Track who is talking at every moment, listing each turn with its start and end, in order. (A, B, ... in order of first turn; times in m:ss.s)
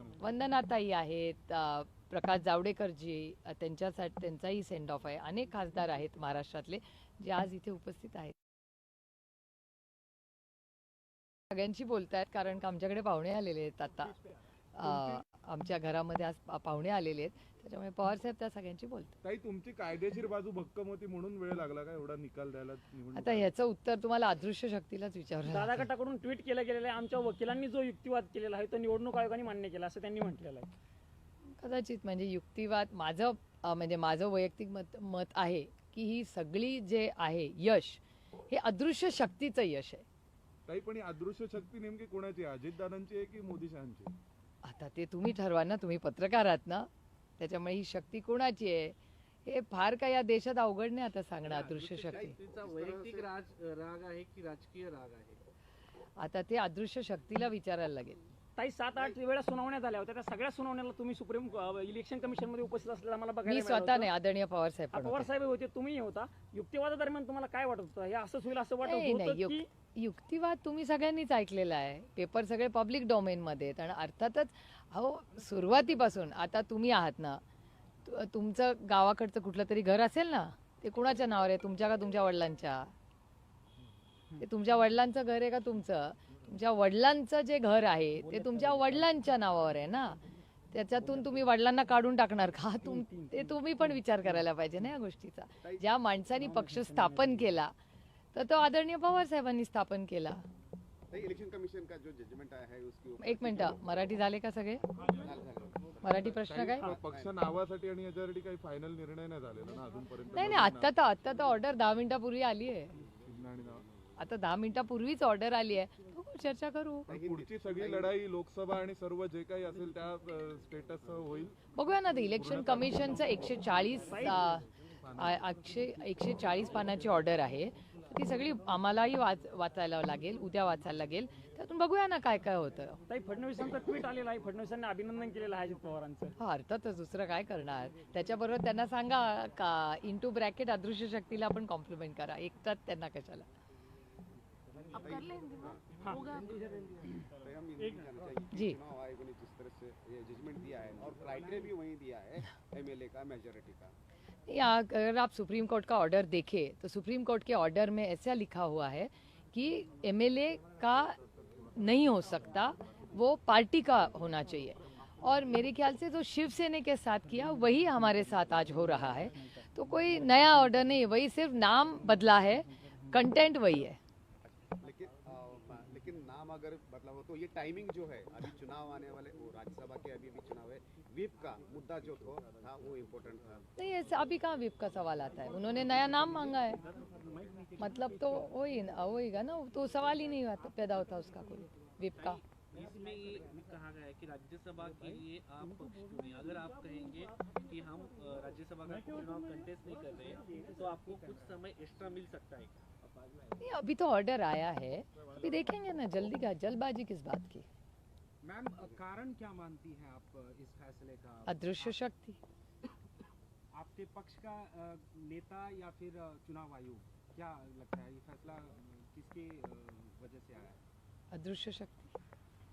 0:00.2-0:08.4 A
0:11.5-0:14.1 A
0:14.8-0:19.2 A
0:19.2-0:23.5 B
0:23.1-0:25.9 A
0:25.5-0:30.7 C
0:31.6-0:40.0 A
0:40.7-0:44.1 B
0:44.6-0:46.9 A
0:47.4-0:52.4 A
0:51.5-0:55.4 D
0:52.1-0:53.3 E
0:56.2-0:58.2 A
0:58.6-1:04.1 C
1:03.5-1:05.3 A
1:04.9-1:09.7 C
1:08.8-1:17.4 A
1:18.0-1:22.9 A
1:24.4-1:30.2 A
1:28.2-1:29.0 C
1:30.7-1:37.7 A
1:32.8-1:33.6 C
1:36.4-1:37.6 C
1:38.3-1:40.4 A
1:41.1-1:43.9 E
1:43.2-1:44.8 A
1:45.1-1:46.2 E
1:46.0-1:46.9 A
1:46.3-1:50.9 B
1:46.8-1:47.4 E
1:50.3-1:52.9 A
1:53.2-1:53.8 B
1:54.2-1:57.1 A
1:57.1-1:58.2 E
1:57.2-2:01.6 B
2:01.7-2:13.0 A
2:02.4-2:05.4 B
2:04.0-2:04.4 C
2:13.1-2:16.3 C
2:16.4-2:23.5 A
2:24.9-2:26.0 E
2:26.0-2:26.4 C
2:27.3-2:34.0 E
2:28.5-2:28.8 A
2:34.5-2:41.2 A
2:41.8-2:54.0 A
2:54.4-3:03.7 E
3:03.8-3:06.8 A
3:05.8-3:06.6 F
3:06.8-3:07.2 D
3:07.2-3:08.2 F
3:07.8-3:12.4 A
3:12.2-3:22.8 D
3:20.5-3:21.2 F
3:23.6-3:27.7 A
3:28.4-3:32.0 F
3:31.5-3:32.4 A
3:33.7-3:40.8 F
3:41.3-3:42.1 A